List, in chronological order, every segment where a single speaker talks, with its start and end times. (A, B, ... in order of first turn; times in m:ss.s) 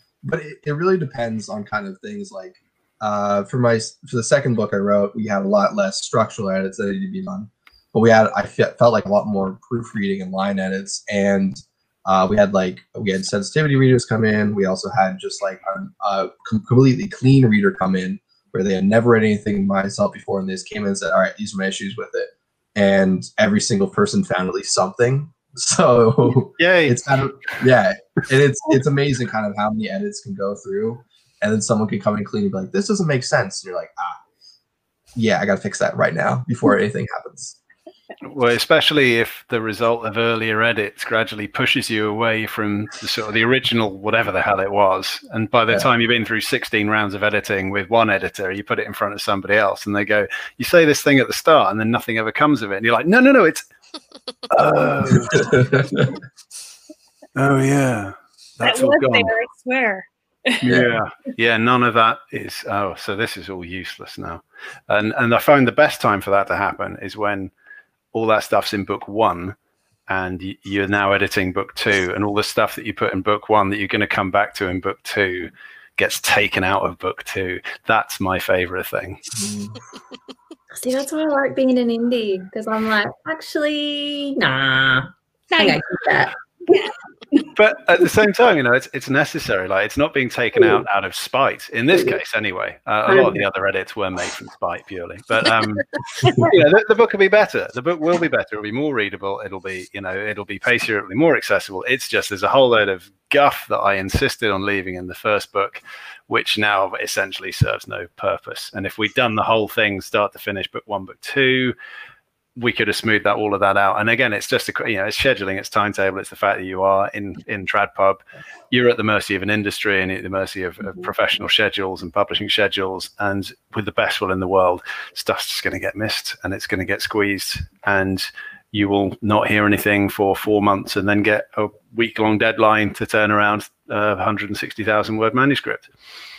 0:00.2-0:34.2 A
0:26.6-0:27.0 B
0:35.2-0:37.6 A
0:38.2-0:53.6 B
0:54.5-0:56.1 B
0:55.3-0:56.1 A
0:57.4-0:59.3 B
0:58.6-1:00.8 C
1:00.6-1:07.5 B
1:08.1-1:09.6 B
1:10.1-1:19.2 B
1:19.3-1:19.7 A
1:20.7-1:26.4 D
1:25.5-1:25.8 C
1:26.7-1:27.5 C
1:27.6-1:51.7 B
1:33.1-1:33.4 D
1:52.6-2:15.9 B